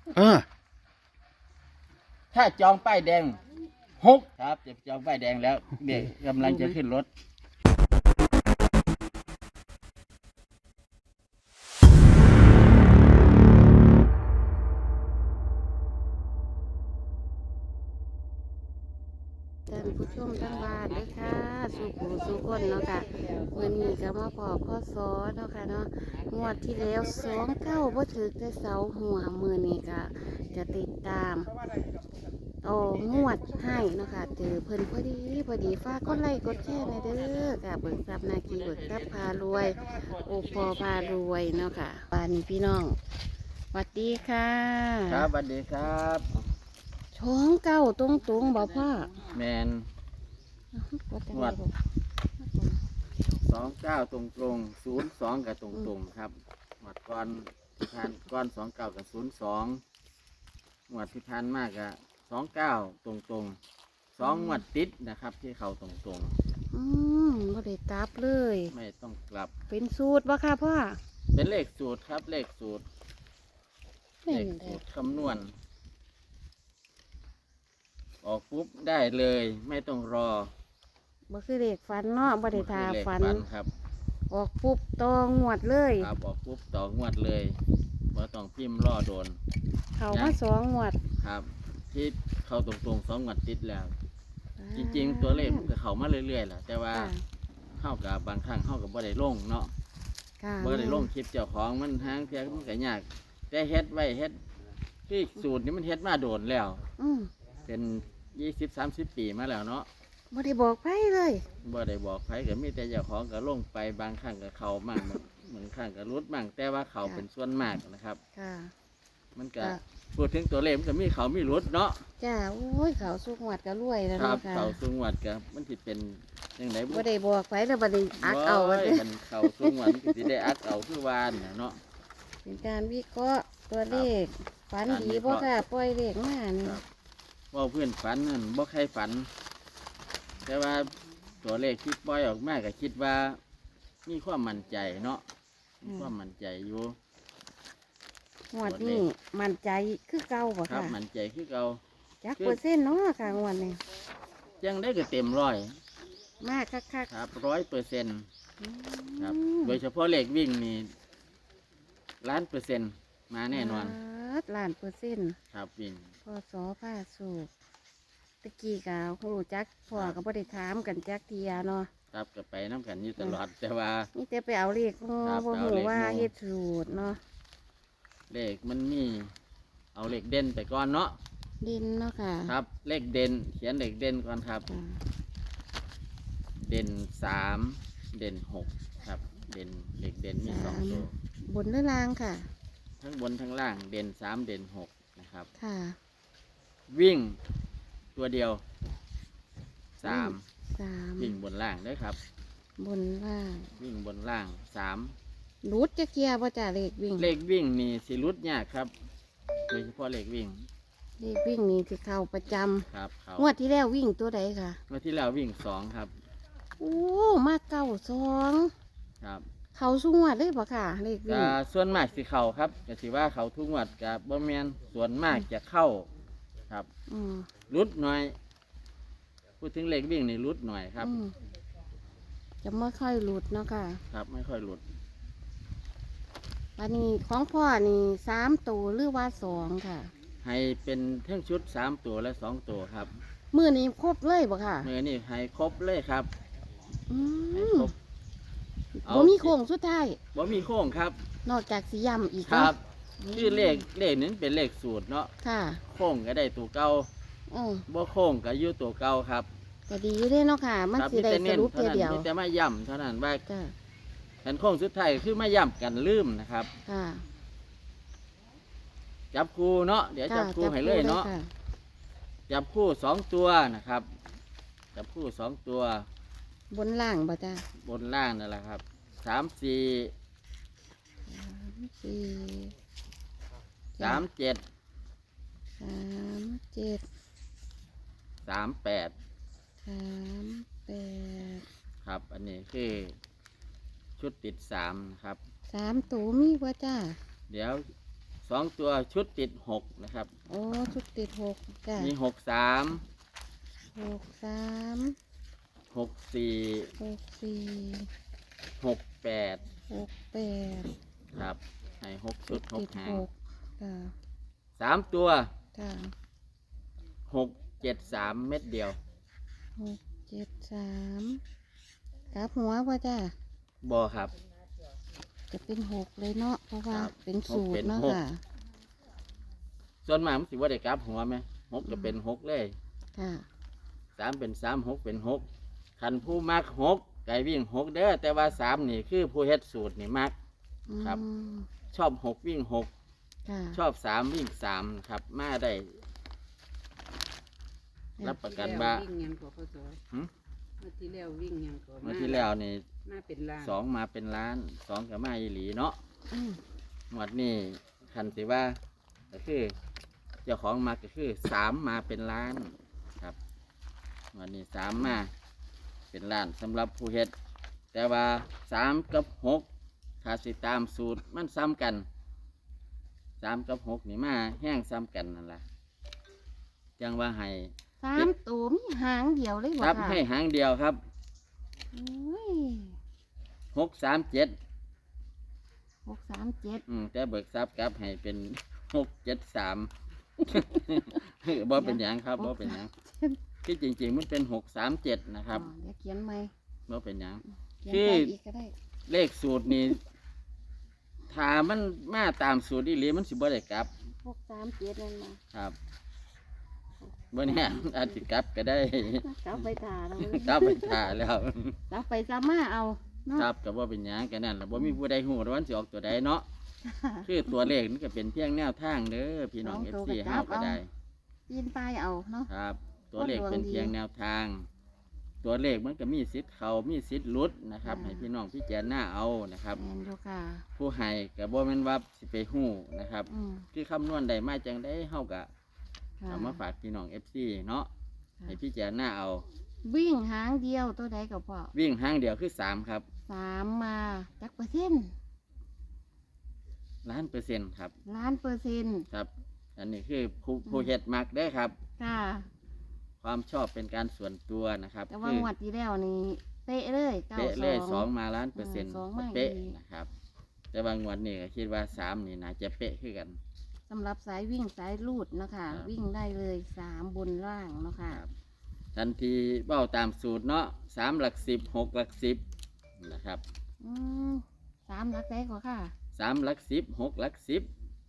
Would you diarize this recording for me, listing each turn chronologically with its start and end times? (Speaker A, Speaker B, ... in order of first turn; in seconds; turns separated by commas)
Speaker A: 2.3-3.4, Speaker A: 4.0-7.1, Speaker B: 6.4-6.7, Speaker C: 19.7-31.5, Speaker C: 32.6-43.0, Speaker C: 43.7-45.3, Speaker A: 45.1-46.3, Speaker C: 47.1-49.3, Speaker A: 49.3-49.9, Speaker C: 50.7-51.8, Speaker A: 51.3-51.6, Speaker C: 52.4-52.8, Speaker A: 53.4-59.8, Speaker A: 60.9-63.6, Speaker C: 64.2-64.6, Speaker A: 64.2-66.3, Speaker C: 66.7-68.7, Speaker A: 68.7-69.5, Speaker C: 69.7-71.0, Speaker A: 71.3-72.8, Speaker C: 74.2-74.8, Speaker A: 74.3-75.5, Speaker A: 78.2-80.5, Speaker C: 81.3-83.5, Speaker A: 82.5-83.7, Speaker C: 84.3-86.1, Speaker A: 86.0-87.6, Speaker A: 88.1-89.4, Speaker C: 90.0-91.0, Speaker A: 90.1-90.4, Speaker A: 91.2-93.9, Speaker C: 94.6-95.7, Speaker A: 94.8-97.1, Speaker C: 96.9-97.2, Speaker A: 97.8-99.7, Speaker C: 100.4-101.1, Speaker A: 100.6-104.4, Speaker A: 105.1-106.8, Speaker C: 107.0-107.3, Speaker A: 107.7-109.9, Speaker C: 110.3-111.5, Speaker A: 111.6-118.2, Speaker C: 118.3-118.7, Speaker A: 119.3-122.0, Speaker C: 122.2-124.8, Speaker A: 124.2-127.0, Speaker C: 126.9-130.4, Speaker A: 128.2-131.8, Speaker C: 132.4-136.8, Speaker A: 134.9-135.5, Speaker A: 137.5-139.3, Speaker A: 140.4-140.9, Speaker A: 141.4-143.4, Speaker A: 144.1-145.2, Speaker A: 145.8-147.0, Speaker C: 145.9-146.1, Speaker C: 148.5-151.0, Speaker A: 148.6-149.1, Speaker A: 150.7-151.8, Speaker C: 152.2-153.8, Speaker A: 154.6-155.8, Speaker C: 156.4-157.1, Speaker A: 157.1-158.3, Speaker C: 158.6-159.8, Speaker A: 159.2-160.9, Speaker A: 162.2-164.0, Speaker C: 163.5-165.4, Speaker A: 165.5-166.1, Speaker C: 166.3-167.5, Speaker C: 168.4-171.9, Speaker A: 172.1-174.1, Speaker C: 174.1-177.2, Speaker A: 175.2-176.3, Speaker A: 178.3-179.3, Speaker A: 179.9-181.2, Speaker C: 181.6-182.5, Speaker A: 182.5-184.7, Speaker C: 184.7-185.0, Speaker A: 186.7-191.1, Speaker C: 190.4-192.5, Speaker A: 193.0-195.5, Speaker C: 195.6-196.0, Speaker A: 196.9-197.4, Speaker A: 198.2-198.6, Speaker A: 200.0-200.4, Speaker C: 200.0-201.4, Speaker A: 201.2-202.2, Speaker C: 202.8-203.7, Speaker A: 203.8-205.2, Speaker C: 205.6-207.3, Speaker A: 207.2-208.9, Speaker A: 209.7-210.7, Speaker C: 211.2-212.9, Speaker A: 212.9-213.5, Speaker C: 213.4-214.8, Speaker A: 214.9-216.1, Speaker C: 216.8-218.7, Speaker A: 219.2-219.5, Speaker C: 219.8-221.6, Speaker A: 221.3-226.1, Speaker C: 227.1-227.5, Speaker A: 227.7-228.3, Speaker A: 229.6-231.1, Speaker C: 231.0-231.3, Speaker C: 232.6-234.0, Speaker A: 234.1-234.8, Speaker C: 236.8-240.1, Speaker A: 240.4-243.2, Speaker C: 243.5-244.9, Speaker A: 244.8-246.3, Speaker C: 247.1-247.9, Speaker A: 247.5-247.9, Speaker C: 249.0-250.2, Speaker A: 249.1-249.5, Speaker A: 250.3-251.2, Speaker C: 251.4-253.9, Speaker A: 252.4-255.3, Speaker C: 255.4-255.8, Speaker A: 255.9-257.1, Speaker C: 257.5-257.9, Speaker A: 257.9-259.5, Speaker C: 259.9-262.3, Speaker A: 261.0-263.4, Speaker C: 263.5-263.7, Speaker A: 264.4-266.7, Speaker C: 266.9-267.2, Speaker A: 269.3-271.3, Speaker C: 270.3-271.5, Speaker A: 272.5-274.1, Speaker A: 274.9-276.1, Speaker C: 276.7-277.7, Speaker A: 277.8-280.1, Speaker C: 281.3-282.7, Speaker C: 284.0-284.3, Speaker A: 284.0-284.6, Speaker C: 285.8-287.1, Speaker A: 288.5-289.1, Speaker C: 289.9-291.6, Speaker A: 292.0-293.2, Speaker A: 294.2-295.4, Speaker C: 295.7-297.2, Speaker A: 297.5-297.9, Speaker A: 298.4-300.3, Speaker C: 300.5-302.1, Speaker A: 302.0-303.0, Speaker C: 303.9-305.2, Speaker A: 305.9-306.9, Speaker C: 307.0-308.1, Speaker A: 308.8-309.6, Speaker C: 309.9-310.9, Speaker A: 311.3-313.2, Speaker C: 312.5-314.1, Speaker A: 314.8-315.5, Speaker C: 315.8-316.1, Speaker A: 317.3-319.0, Speaker C: 319.8-321.4, Speaker C: 322.3-323.3, Speaker A: 323.8-324.3, Speaker C: 325.5-328.4, Speaker A: 326.9-328.2, Speaker A: 330.0-332.7, Speaker C: 331.9-332.1, Speaker C: 333.2-333.4, Speaker A: 334.2-335.5, Speaker A: 336.0-340.3, Speaker C: 340.9-341.7, Speaker A: 341.9-342.9, Speaker C: 343.5-343.8, Speaker A: 343.7-346.0, Speaker C: 348.2-348.5, Speaker A: 348.2-349.0, Speaker B: 348.4-350.0, Speaker B: 350.8-352.5, Speaker A: 352.0-352.9, Speaker B: 353.1-353.8, Speaker A: 353.6-356.0, Speaker C: 356.3-356.6, Speaker A: 357.1-358.8, Speaker A: 359.3-359.7, Speaker A: 360.4-363.4, Speaker A: 364.3-365.3, Speaker A: 366.1-367.3, Speaker A: 367.9-369.7, Speaker A: 370.2-372.1, Speaker A: 373.4-375.6, Speaker A: 377.0-378.3, Speaker C: 378.0-380.2, Speaker A: 379.8-381.0, Speaker C: 381.9-383.0, Speaker A: 383.7-384.5, Speaker C: 386.1-386.9, Speaker A: 386.9-392.9, Speaker C: 391.8-393.4, Speaker A: 393.6-395.7, Speaker C: 395.5-396.5, Speaker A: 396.9-398.3, Speaker C: 397.8-398.7, Speaker A: 399.1-400.0, Speaker A: 401.3-403.9, Speaker C: 404.2-405.4, Speaker A: 407.3-409.3, Speaker C: 407.4-408.1, Speaker C: 409.2-411.0, Speaker A: 410.2-411.8, Speaker C: 411.9-413.5, Speaker A: 413.3-416.5, Speaker C: 414.7-415.0, Speaker C: 416.9-417.7, Speaker A: 417.2-420.9, Speaker C: 419.6-420.8, Speaker C: 421.5-422.5, Speaker A: 422.5-424.7, Speaker C: 423.2-423.9, Speaker A: 425.4-429.8, Speaker C: 427.8-428.3, Speaker C: 429.8-430.6, Speaker A: 430.8-435.5, Speaker C: 433.3-433.7, Speaker C: 436.2-436.6, Speaker A: 436.3-437.9, Speaker A: 438.5-439.4, Speaker C: 439.9-441.7, Speaker A: 441.7-443.1, Speaker C: 443.3-445.1, Speaker A: 447.1-447.9, Speaker C: 448.1-449.1, Speaker A: 449.1-451.8, Speaker C: 450.7-450.9, Speaker C: 452.0-452.5, Speaker A: 453.2-455.5, Speaker C: 455.1-459.8, Speaker A: 457.4-460.1, Speaker A: 460.7-463.4, Speaker C: 463.9-468.2, Speaker A: 468.9-472.4, Speaker A: 473.0-473.4, Speaker C: 473.8-475.9, Speaker A: 476.1-477.7